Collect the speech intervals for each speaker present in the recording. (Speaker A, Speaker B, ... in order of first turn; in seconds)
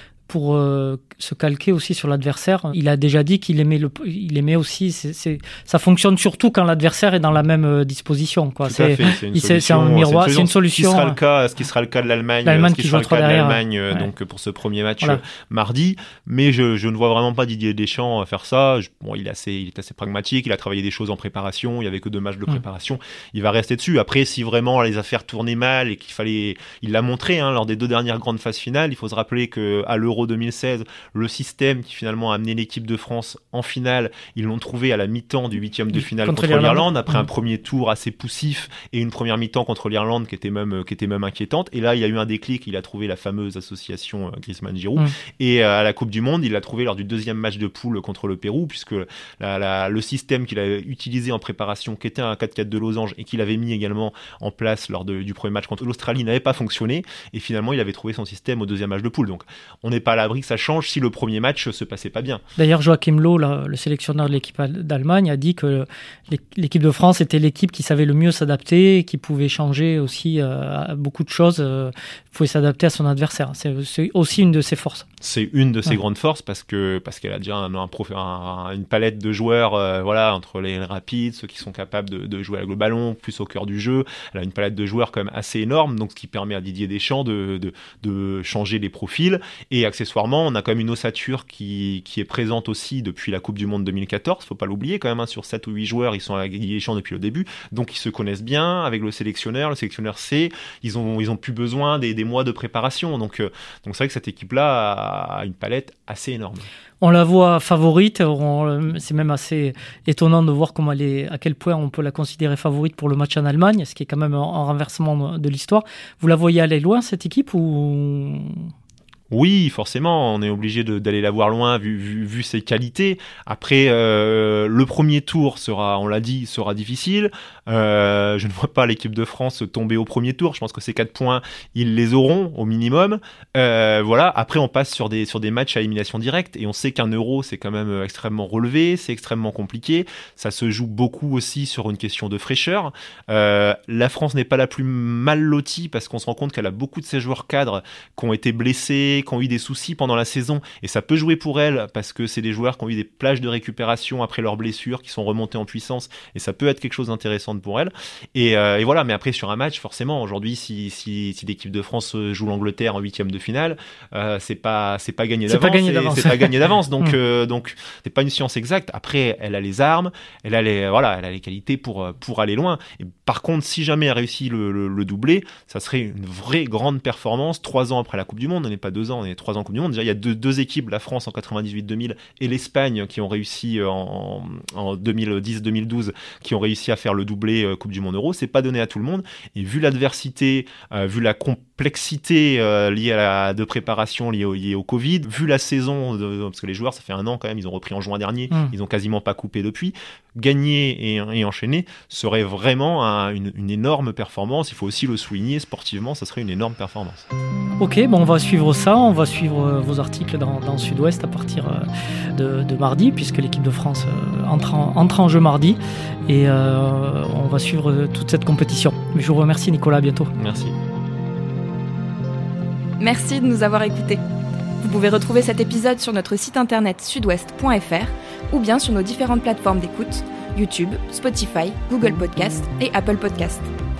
Speaker A: 0.3-11.2, 12.4-14.1, 36.0-37.2, 62.6-75.1, 107.0-118.7, 165.5-167.1, 207.8-220.3
Speaker B: 8.6-62.4, 75.2-106.7, 119.3-207.3, 220.4-220.8
Speaker C: 223.0-224.2, 224.8-233.7